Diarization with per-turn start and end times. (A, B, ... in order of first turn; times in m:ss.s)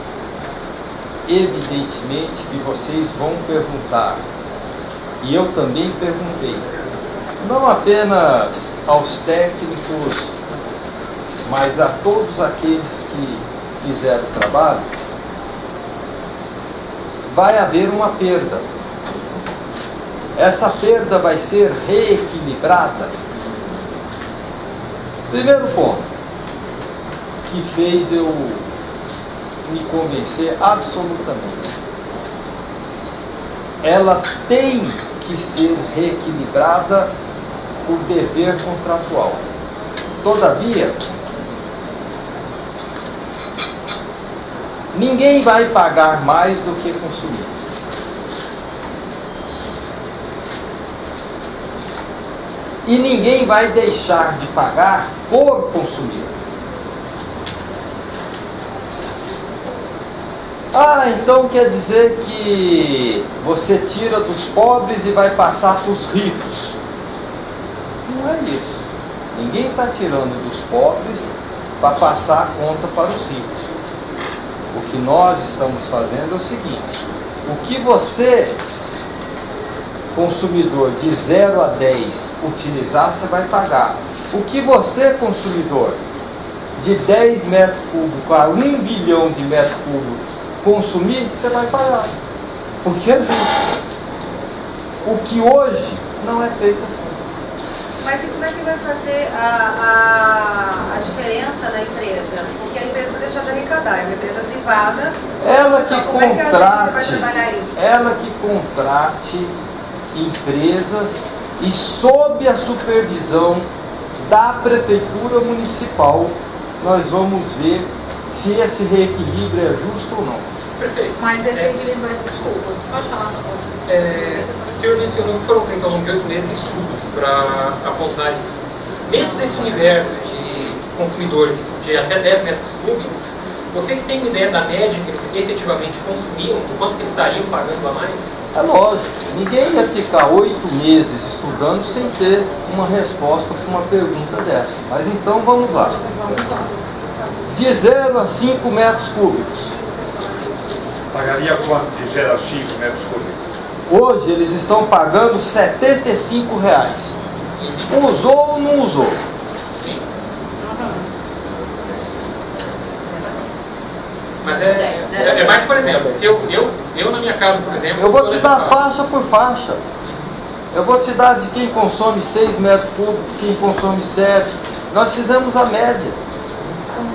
0:01.2-0:04.2 A
0:05.2-0:06.6 A
0:07.4-0:10.4 A
0:11.4-0:14.9 A
0:17.3-0:18.6 A
0:20.4-0:23.2 A
0:25.3-0:26.1 A
0:27.4-0:28.7 A
0:29.6-0:31.7 A
0:33.8-0:37.1 A
0:37.8-0:39.4 A
0:40.2-0:41.0 A
0:44.9-0:47.5 A
0:52.8-0:56.3 A
1:00.7-1:06.8 A
1:08.0-1:13.7 A
1:14.7-1:18.6 A
1:20.1-1:26.0 A
1:26.8-1:32.1 A
1:32.8-1:33.8 A
1:35.0-1:37.2 A
1:38.0-1:47.7 B
1:45.4-1:49.5 A
1:50.1-1:53.7 A
1:54.2-2:00.4 A
2:00.8-2:01.7 C
2:01.2-2:03.7 D
2:03.8-2:18.4 C
2:18.5-2:26.0 A
2:26.0-2:26.8 D
2:27.5-2:29.7 A
2:31.1-2:33.4 E
2:33.9-2:37.2 A
2:37.6-2:37.9 C
2:37.9-2:39.2 A
2:39.8-2:40.0 C
2:44.4-2:48.8 C
2:48.0-2:49.8 A
2:50.7-2:56.2 A